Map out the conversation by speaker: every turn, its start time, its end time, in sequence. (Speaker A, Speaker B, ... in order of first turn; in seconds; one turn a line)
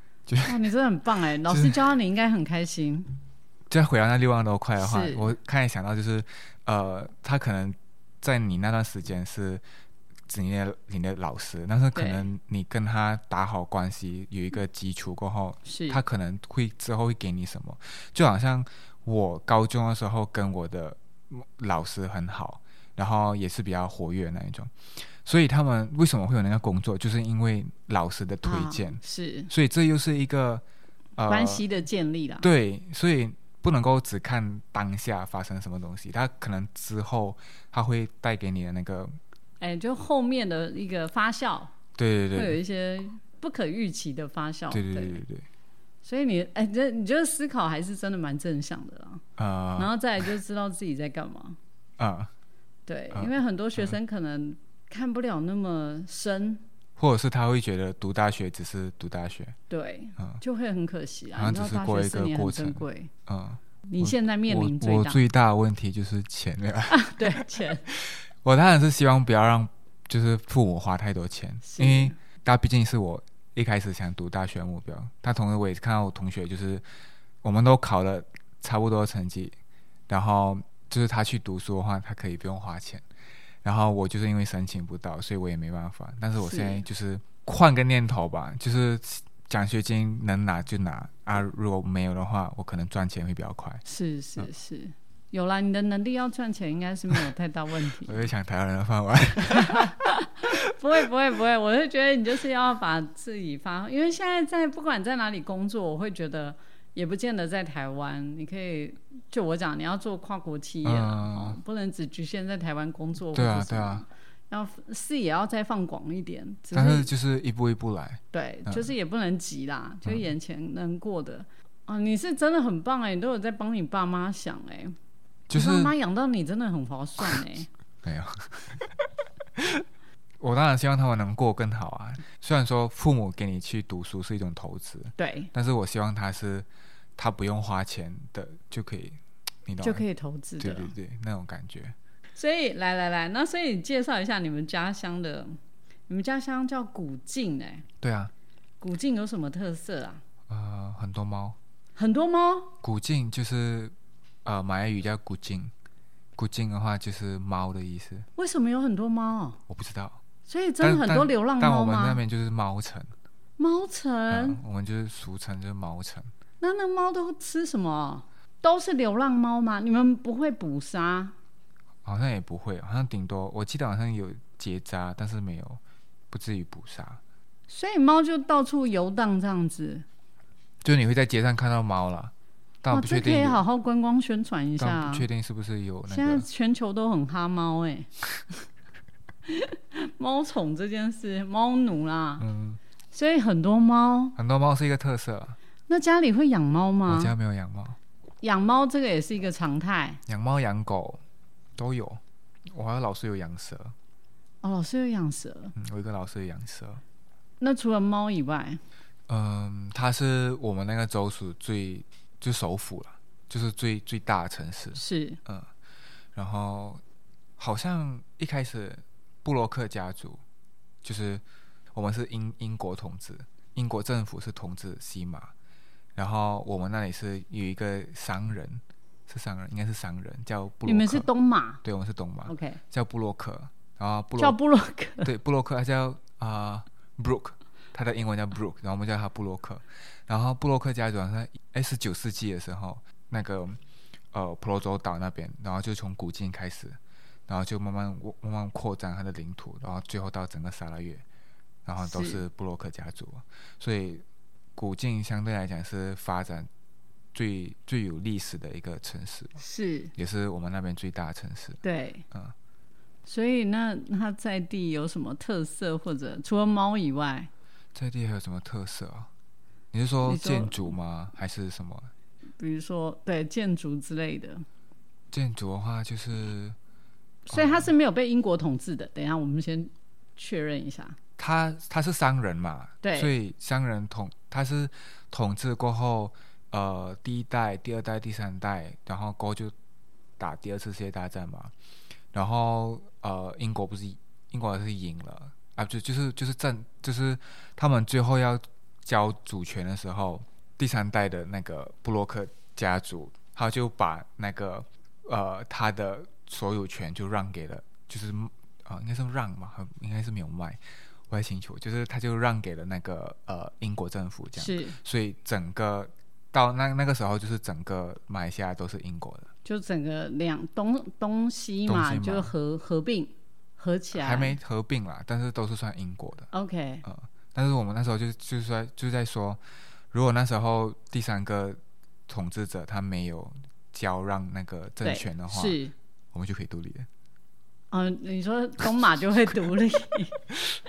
Speaker A: 0.3-0.7
Speaker B: 0.5-3.1
Speaker A: 1.4-1.8
Speaker A: 3.7-9.6
Speaker B: 4.8-5.3
Speaker A: 10.3-30.6
Speaker B: 11.9-12.3
Speaker B: 15.7-16.0
Speaker B: 28.4-29.5
Speaker A: 31.2-31.6
Speaker B: 31.2-32.5
Speaker A: 32.4-39.1
Speaker B: 39.6-41.7
Speaker A: 42.0-42.6
Speaker B: 42.3-45.2
Speaker A: 44.7-45.4
Speaker B: 46.0-49.2
Speaker A: 49.4-49.9
Speaker B: 49.8-51.6
Speaker A: 52.0-52.3
Speaker B: 52.9-56.6
Speaker A: 53.1-54.0
Speaker A: 57.0-59.5
Speaker B: 59.7-63.1
Speaker A: 61.3-76.8
Speaker B: 63.9-65.2
Speaker B: 66.9-67.9
Speaker B: 71.6-72.2
Speaker A: 77.4-79.6
Speaker A: 80.1-83.0
Speaker A: 83.6-93.8
Speaker B: 86.4-86.8
Speaker B: 93.8-98.3
Speaker A: 98.0-100.1
Speaker B: 99.5-117.1
Speaker A: 110.8-111.6
Speaker A: 113.3-114.0
Speaker A: 116.7-118.9
Speaker B: 118.3-124.9
Speaker A: 125.5-125.9
Speaker B: 125.5-127.7
Speaker A: 128.0-129.0
Speaker A: 129.6-129.8
Speaker A: 130.4-140.0
Speaker B: 135.2-135.5
Speaker B: 139.8-140.9
Speaker A: 140.6-141.9
Speaker B: 142.3-145.5
Speaker B: 146.1-147.8
Speaker A: 148.0-148.3
Speaker B: 148.8-150.2
Speaker A: 150.5-151.6
Speaker B: 151.9-152.7
Speaker A: 152.8-153.9
Speaker A: 154.4-155.7
Speaker A: 156.3-158.3
Speaker B: 158.3-159.6
Speaker A: 159.7-160.2
Speaker B: 160.5-162.2
Speaker A: 160.8-163.1
Speaker B: 163.6-164.6
Speaker A: 164.3-166.3
Speaker B: 166.6-171.3
Speaker A: 172.0-177.2
Speaker B: 177.7-180.0
Speaker A: 180.8-182.3
Speaker A: 182.8-183.6
Speaker B: 182.9-185.3
Speaker A: 184.8-186.5
Speaker B: 186.1-188.1
Speaker B: 189.4-192.4
Speaker A: 192.4-192.8
Speaker B: 193.1-194.3
Speaker A: 194.4-195.6
Speaker B: 195.9-197.3
Speaker A: 197.1-198.0
Speaker B: 198.4-200.2
Speaker A: 200.2-201.2
Speaker A: 201.8-203.9
Speaker B: 204.6-205.7
Speaker A: 205.8-207.0
Speaker B: 207.6-208.8
Speaker A: 209.3-215.7
Speaker B: 214.9-215.4
Speaker A: 216.3-217.0
Speaker A: 217.6-220.4
Speaker A: 221.0-221.4
Speaker A: 221.9-225.5
Speaker A: 226.2-231.3
Speaker B: 230.8-231.8
Speaker A: 231.8-234.6
Speaker B: 232.5-232.8
Speaker B: 234.4-235.3
Speaker A: 235.2-243.8
Speaker A: 244.3-251.2
Speaker A: 251.8-254.2
Speaker B: 252.0-252.4
Speaker A: 254.8-256.7
Speaker A: 257.3-259.6
Speaker B: 259.6-260.1
Speaker A: 260.2-262.5
Speaker B: 261.8-262.2
Speaker B: 263.2-267.5
Speaker A: 267.9-269.3
Speaker A: 269.9-272.1
Speaker B: 270.2-270.9
Speaker B: 272.6-274.6
Speaker A: 275.3-276.8
Speaker B: 277.5-281.2
Speaker A: 277.5-277.9
Speaker A: 281.4-289.7
Speaker B: 283.0-283.3
Speaker A: 290.4-291.7
Speaker A: 292.3-319.5
Speaker B: 314.6-315.0
Speaker B: 319.6-324.6
Speaker A: 321.9-322.5
Speaker A: 324.1-326.5
Speaker B: 326.5-327.0
Speaker A: 327.0-329.6
Speaker A: 330.1-335.8
Speaker B: 335.0-335.9
Speaker A: 336.3-337.1
Speaker B: 337.9-340.4